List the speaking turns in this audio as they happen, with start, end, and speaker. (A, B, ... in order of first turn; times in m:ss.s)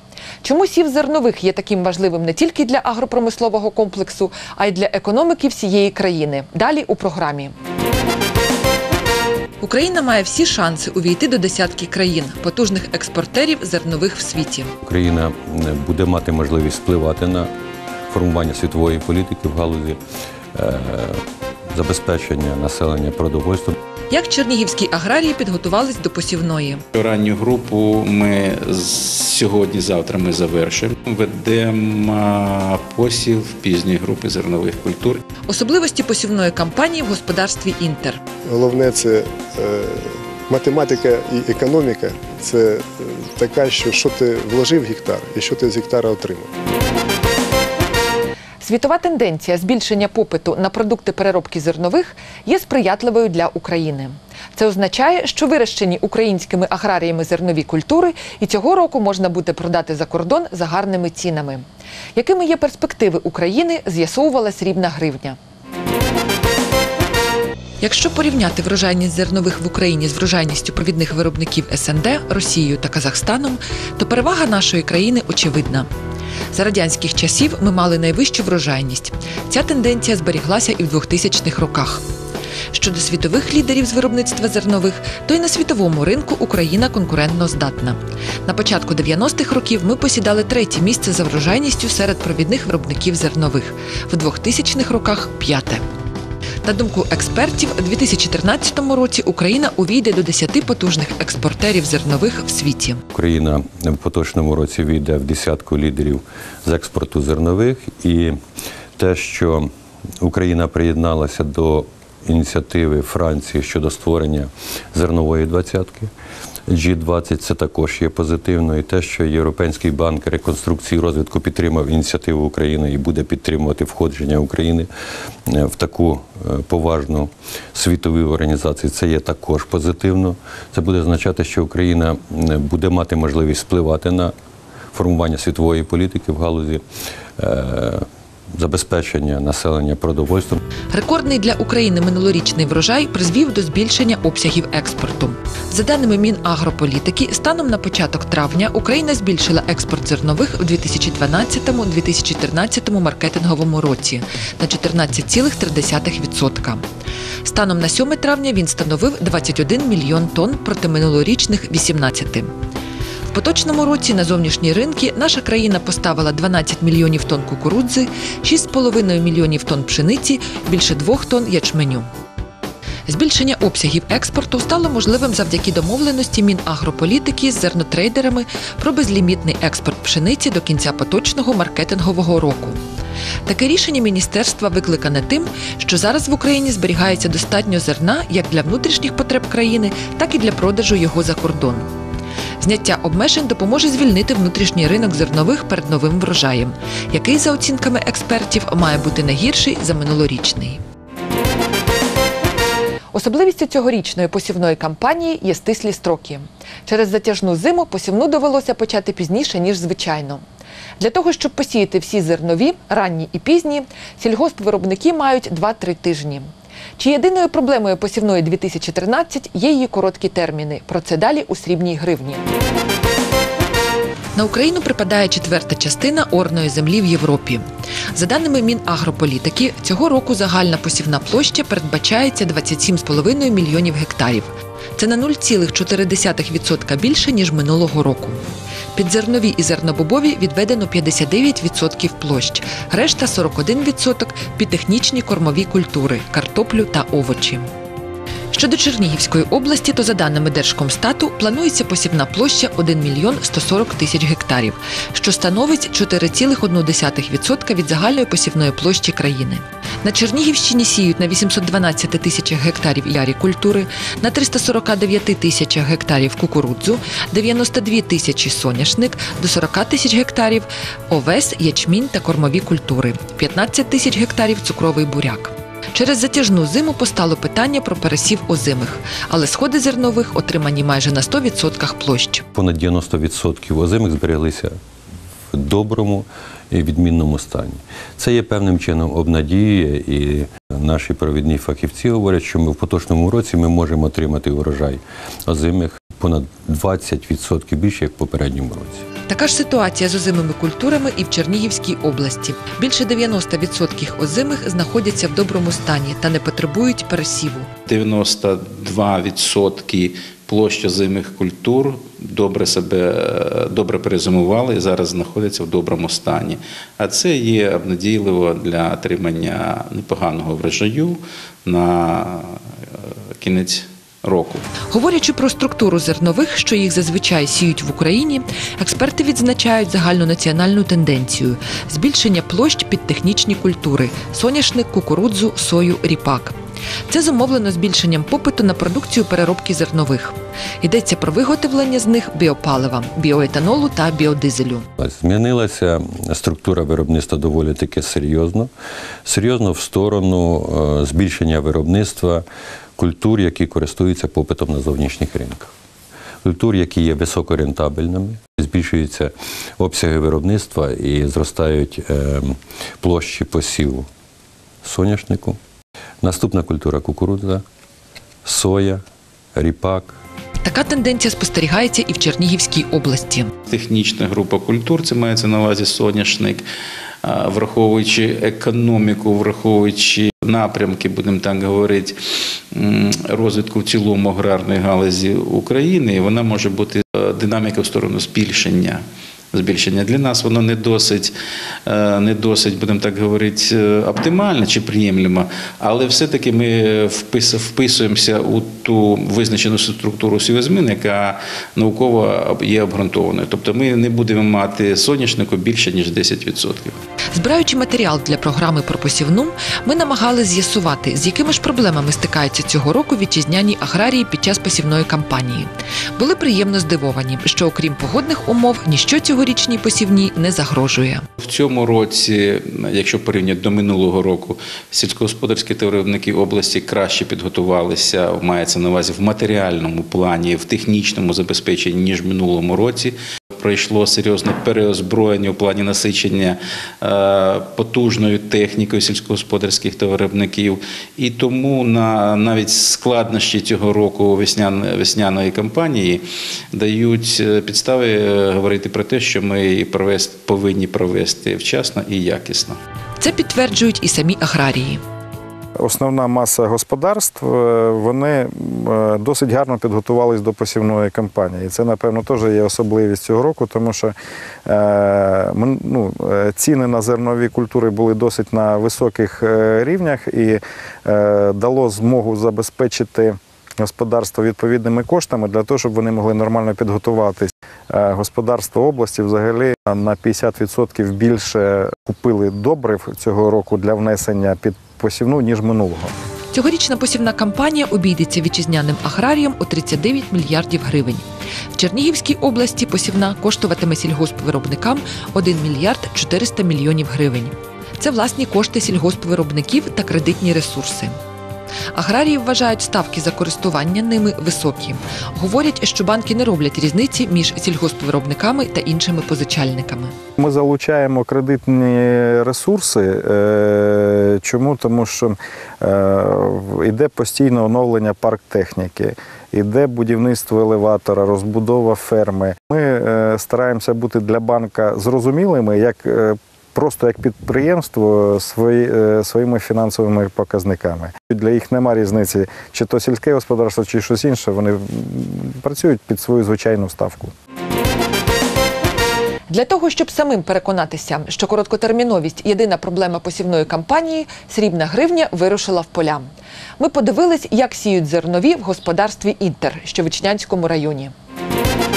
0:00.4-0:07.5 A
0:09.6-0:14.7 A
0:14.8-0:17.5 B
0:18.1-0:20.0 B
0:20.6-0:21.2 B
0:21.7-0:23.8 B
0:24.1-0:26.8 A
0:26.9-0:35.2 C
0:35.5-0:38.2 A
0:38.5-0:46.5 D
0:48.6-1:01.6 A
1:02.2-1:05.4 A
1:07.8-1:15.9 A
1:16.5-1:22.0 A
1:22.7-1:35.8 A
1:36.6-1:43.0 A
1:43.1-1:48.4 B
1:49.0-1:56.1 B
1:56.7-2:04.9 B
2:05.5-2:14.4 B
2:14.9-2:16.8 B
2:17.4-2:20.6 B
2:20.9-2:36.8 A
2:37.4-2:42.5 A
2:43.3-2:52.1 A
2:53.1-3:02.8 A
3:03.5-3:11.9 A
3:12.6-3:20.8 A
3:23.1-3:30.4 A
3:31.0-3:42.4 A
3:44.4-3:58.4 A
3:59.0-4:07.7 A
4:08.5-4:42.5 A
4:42.5-4:44.8 B
4:45.5-4:59.0 B
4:59.3-5:07.7 A
5:07.9-5:24.6 C
5:24.9-5:36.6 A
5:37.1-5:44.9 A
5:45.0-5:48.7 B
5:49.3-5:52.4 B
5:53.0-5:55.7 B
5:56.4-6:04.1 B
6:04.8-6:05.6 B
6:06.2-6:07.6 B
6:08.4-6:09.0 B
6:09.6-6:10.2 B
6:10.6-6:13.5 A
6:13.7-6:16.6 C
6:17.2-6:22.2 C
6:22.7-6:31.3 C
6:31.9-6:47.0 C
6:47.3-7:01.2 A
7:01.4-7:32.8 C
7:33.2-7:35.0 A
7:35.8-7:44.2 E
7:44.7-8:06.1 E
8:06.5-8:21.2 A
8:21.9-8:30.1 A
8:30.4-8:57.3 E
8:59.5-9:11.1 A